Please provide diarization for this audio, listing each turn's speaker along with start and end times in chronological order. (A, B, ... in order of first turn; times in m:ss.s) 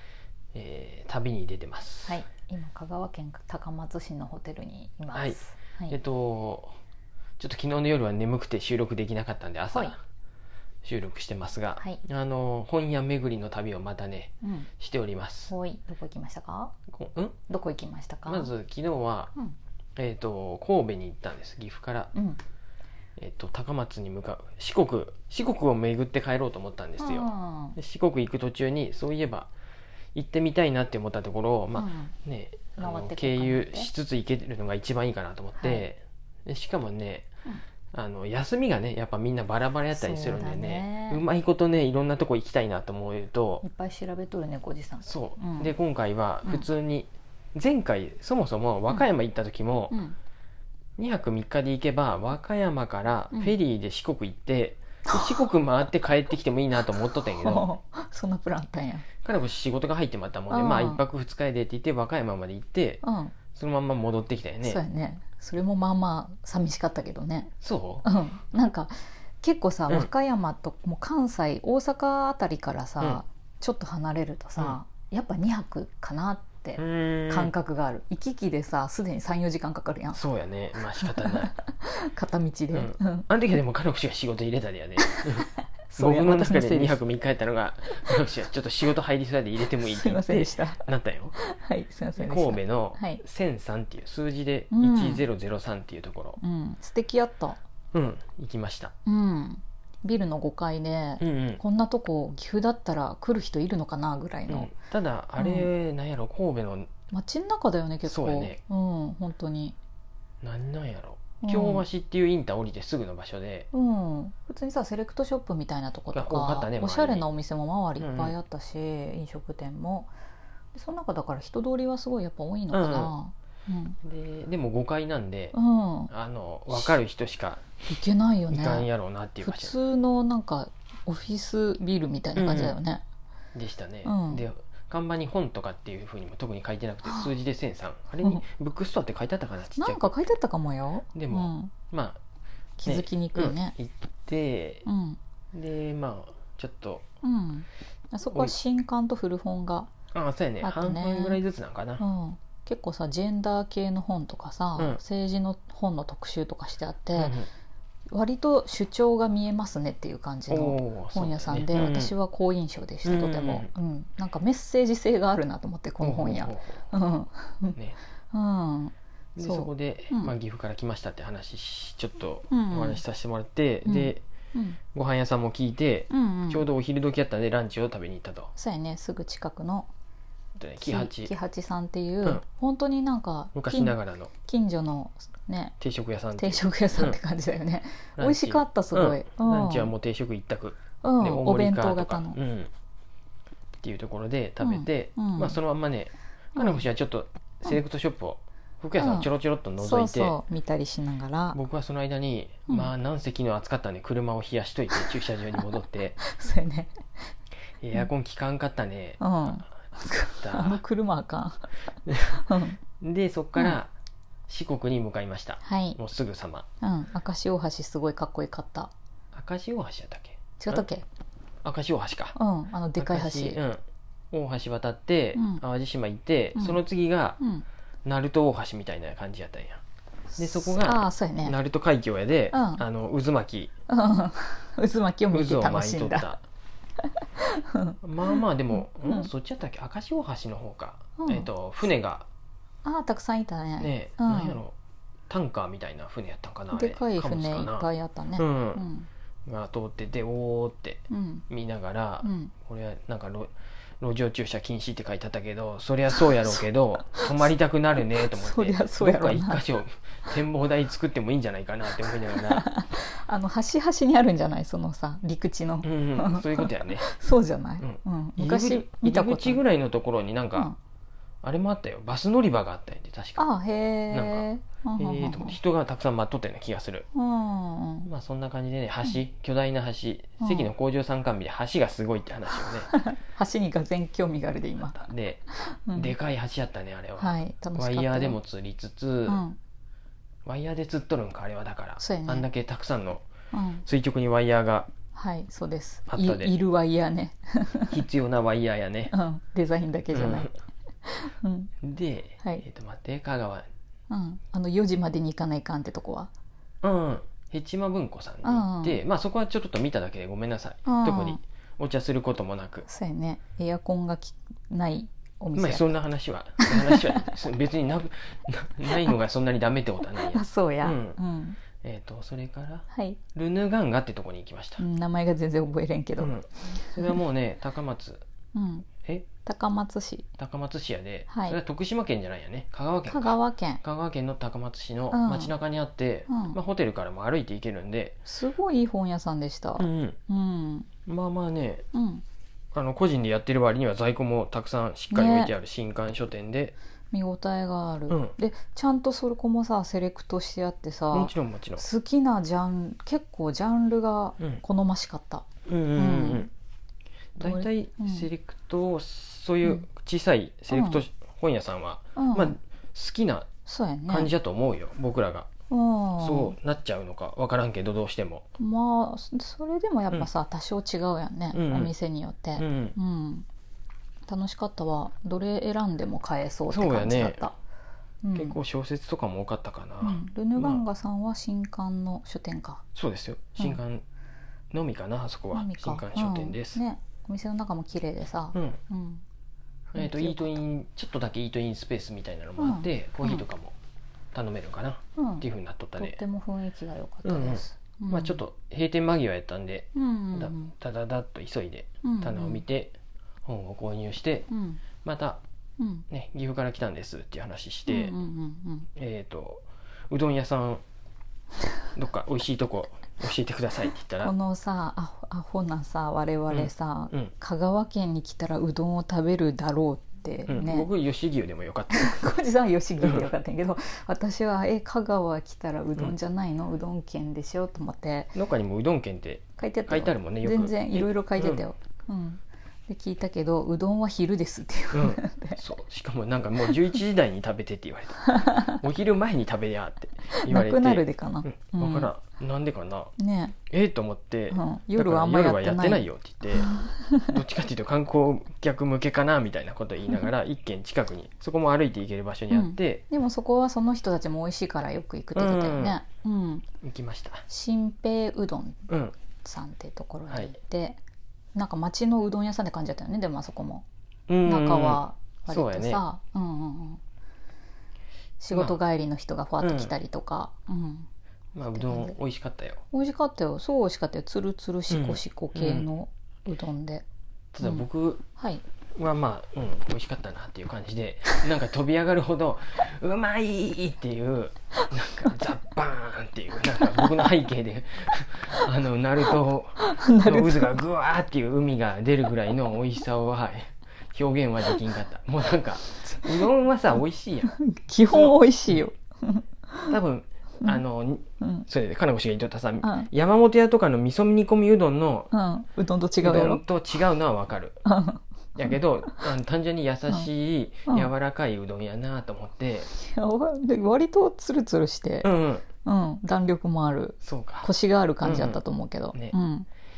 0:00.5-0:02.2 A
0:02.0-0:06.0 B
0:05.1-0:06.8 A
0:07.4-0:10.0 A
0:10.8-0:15.5 A
0:14.4-0:14.7 B
0:15.5-0:16.7 B
0:16.9-0:17.4 A
0:17.5-0:18.5 B
0:18.2-0:19.3 A
0:20.0-0:22.1 A
0:22.1-0:22.4 B
0:23.2-0:29.5 A
0:27.0-0:27.8 B
0:30.1-0:37.3 A
0:31.8-0:32.1 B
0:32.8-0:33.9 B
0:35.6-0:35.8 B
0:37.9-0:43.6 A
0:39.9-0:41.2 B
0:43.6-0:45.7 B
0:45.0-0:50.0 A
0:49.9-0:50.2 B
0:51.0-0:57.7 A
0:55.1-0:55.5 B
0:57.2-0:59.1 B
0:59.2-1:04.8 A
1:00.5-1:01.0 B
1:03.0-1:03.4 B
1:04.6-1:07.5 B
1:07.6-1:08.0 A
1:08.0-1:20.2 B
1:16.8-1:17.5 A
1:20.1-1:21.5 A
1:21.0-1:23.2 B
1:22.7-1:31.3 A
1:25.0-1:27.0 B
1:29.8-1:30.8 B
1:31.3-1:33.2 B
1:32.2-1:36.4 A
1:34.7-1:35.2 B
1:36.4-1:37.6 B
1:37.9-1:38.9 A
1:39.0-1:44.7 B
1:41.2-1:41.6 A
1:44.5-1:46.9 A
1:45.4-1:45.7 B
1:47.1-1:49.8 B
1:48.0-1:48.6 A
1:50.4-1:53.7 A
1:51.4-1:51.8 B
1:53.7-2:00.1 B
1:56.1-1:57.3 A
1:58.0-1:58.4 A
2:00.7-2:04.0 B
2:02.7-2:03.1 A
2:04.0-2:05.6 A
2:05.5-2:06.1 B
2:06.1-2:07.7 A
2:07.9-2:08.9 B
2:08.5-2:09.7 A
2:09.4-2:13.0 B
2:12.3-2:12.8 A
2:13.5-2:20.1 A
2:14.0-2:14.4 B
2:17.0-2:17.3 B
2:19.8-2:21.7 B
2:21.1-2:22.2 A
2:22.8-2:23.8 B
2:22.8-2:24.8 A
2:24.8-2:25.2 B
2:25.5-2:27.0 A
2:27.2-2:29.9 B
2:30.1-2:32.0 A
2:30.6-2:31.4 B
2:32.0-2:37.4 B
2:37.1-2:37.5 A
2:38.1-2:47.8 B
2:40.5-2:42.1 A
2:43.0-2:43.7 A
2:46.0-2:46.9 A
2:48.3-2:50.3 B
2:49.4-2:54.2 A
2:52.5-2:53.0 B
2:53.8-2:54.8 B
2:54.9-2:58.5 A
2:56.1-2:56.7 B
2:58.6-2:59.9 B
3:00.6-3:01.3 A
3:00.8-3:04.0 B
3:03.5-3:04.3 A
3:04.5-3:05.8 B
3:05.8-3:07.2 A
3:06.4-3:09.9 B
3:08.2-3:12.7 A
3:11.0-3:12.4 B
3:13.8-3:20.4 A
3:14.6-3:15.6 B
3:16.6-3:16.8 B
3:19.0-3:21.6 B
3:21.5-3:26.2 A
3:26.2-3:26.9 B
3:27.8-3:29.7 A
3:29.2-3:31.7 B
3:30.3-3:30.8 A
3:32.1-3:32.4 A
3:32.4-3:32.8 B
3:33.0-3:33.9 A
3:34.5-3:36.6 A
3:35.6-3:36.0 B
3:36.8-3:38.9 B
3:39.3-3:40.8 A
3:40.6-3:41.0 B
3:41.6-3:42.4 A
3:42.3-3:43.6 B
3:43.0-3:43.8 A
3:44.3-3:47.4 A
3:45.3-3:45.6 B
3:47.4-3:47.6 B
3:48.0-3:49.8 A
3:50.3-3:51.5 B
3:50.4-3:53.7 A
3:52.5-3:52.8 B
3:53.9-3:56.3 B
3:55.3-3:56.4 A
3:57.2-3:58.4 B
3:58.0-4:02.3 A
3:59.0-3:59.3 B
4:01.2-4:01.5 B
4:02.8-4:04.6 B
4:03.8-4:04.7 A
4:05.3-4:08.8 A
4:06.7-4:09.1 B
4:09.4-4:22.7 A
4:11.1-4:11.5 B
4:12.2-4:12.5 B
4:17.2-4:17.4 B
4:18.2-4:19.6 B
4:22.3-4:29.6 B
4:25.8-4:27.1 A
4:27.8-4:30.7 A
4:31.4-4:33.4 A
4:33.4-4:35.6 B
4:34.1-4:37.1 A
4:37.1-4:38.1 B
4:38.0-4:42.9 A
4:40.4-4:40.7 B
4:42.8-4:45.1 B
4:44.8-4:49.4 A
4:45.6-4:46.1 B
4:47.2-4:48.4 B
4:49.3-4:49.6 B
4:50.4-4:53.2 A
4:52.0-4:52.4 B
4:53.5-4:53.8 B
4:53.8-4:54.9 A
4:55.1-4:58.0 B
4:56.1-4:56.5 A
4:57.9-4:59.1 A
4:59.1-5:00.5 B
5:00.1-5:00.5 A
5:01.0-5:01.7 B
5:01.8-5:03.6 A
5:04.1-5:06.3 B
5:06.8-5:12.9 A
5:08.4-5:09.0 B
5:10.8-5:11.4 B
5:12.8-5:16.0 B
5:15.5-5:21.2 A
5:16.6-5:17.1 B
5:20.2-5:21.6 B
5:21.8-5:24.8 A
5:22.9-5:23.2 B
5:24.8-5:27.2 B
5:26.2-5:28.2 A
5:28.5-5:28.9 B
5:29.4-5:30.3 B
5:30.4-5:38.2 A
5:31.3-5:31.6 B
5:33.1-5:33.8 B
5:35.1-5:35.5 B
5:36.3-5:36.6 B
5:38.2-5:40.9 B
5:39.8-5:40.2 A
5:41.0-5:41.8 A
5:41.9-5:42.2 B
5:42.7-5:46.7 A
5:45.1-5:45.5 B
5:47.1-5:56.5 B
5:48.1-5:48.3 A
5:51.1-5:51.8 A
5:55.7-5:56.5 A
5:57.4-5:58.3 B
5:57.4-6:03.5 A
6:00.7-6:01.0 B
6:02.1-6:02.5 B
6:03.6-6:04.3 B
6:04.1-6:05.5 A
6:05.7-6:06.6 B
6:06.2-6:08.4 A
6:08.6-6:13.4 B
6:11.5-6:11.9 A
6:12.6-6:13.0 A
6:14.3-6:17.5 B
6:16.7-6:17.4 A
6:18.2-6:18.6 B
6:18.3-6:20.8 A
6:20.0-6:22.8 B
6:22.9-6:24.0 A
6:24.7-6:26.8 A
6:25.5-6:29.2 B
6:28.5-6:28.8 A
6:29.9-6:33.7 A
6:30.0-6:30.6 B
6:32.6-6:33.4 B
6:34.3-6:36.2 A
6:35.2-6:35.4 B
6:36.0-6:38.4 B
6:37.2-6:42.9 A
6:39.9-6:40.7 B
6:42.0-6:42.6 B
6:43.4-6:44.5 A
6:44.5-6:44.8 B
6:45.0-6:45.4 A
6:45.8-6:46.0 B
6:46.1-6:48.2 A
6:47.9-6:48.9 B
6:49.0-6:50.8 A
6:51.9-6:54.3 A
6:54.2-7:00.9 B
6:56.5-6:57.3 A
7:00.5-7:02.2 A
7:01.9-7:08.4 B
7:03.0-7:03.3 A
7:08.3-7:11.6 A
7:09.6-7:15.6 B
7:14.9-7:23.1 A
7:18.2-7:18.7 B
7:20.4-7:22.1 B
7:23.2-7:23.6 B
7:23.7-7:26.7 A
7:24.5-7:27.3 B
7:27.2-7:33.0 A
7:32.5-7:36.6 B
7:35.3-7:36.0 A
7:36.8-7:37.4 A
7:37.5-7:38.9 B
7:38.9-7:39.2 A
7:39.4-7:41.0 B
7:40.3-7:40.5 A
7:41.5-7:43.8 B
7:44.3-7:46.0 A
7:44.4-7:47.0 B
7:48.4-7:51.1 B
7:48.5-7:48.8 A
7:49.6-7:49.9 A
7:51.5-7:52.8 A
7:51.7-7:52.2 B
7:52.9-7:57.0 B
7:54.9-7:55.9 A
7:57.5-7:58.2 A
7:57.6-7:58.6 B
7:59.0-8:18.8 A
8:06.8-8:07.1 B
8:09.8-8:10.8 B
8:17.5-8:20.0 B
8:19.9-8:25.3 A
8:22.8-8:23.1 B
8:25.3-8:26.6 B
8:26.2-8:27.8 A
8:27.8-8:29.3 B
8:28.6-8:32.9 A
8:32.9-8:35.3 B
8:35.2-8:35.6 A
8:35.8-8:39.7 B
8:37.2-8:37.7 A
8:38.2-8:38.6 A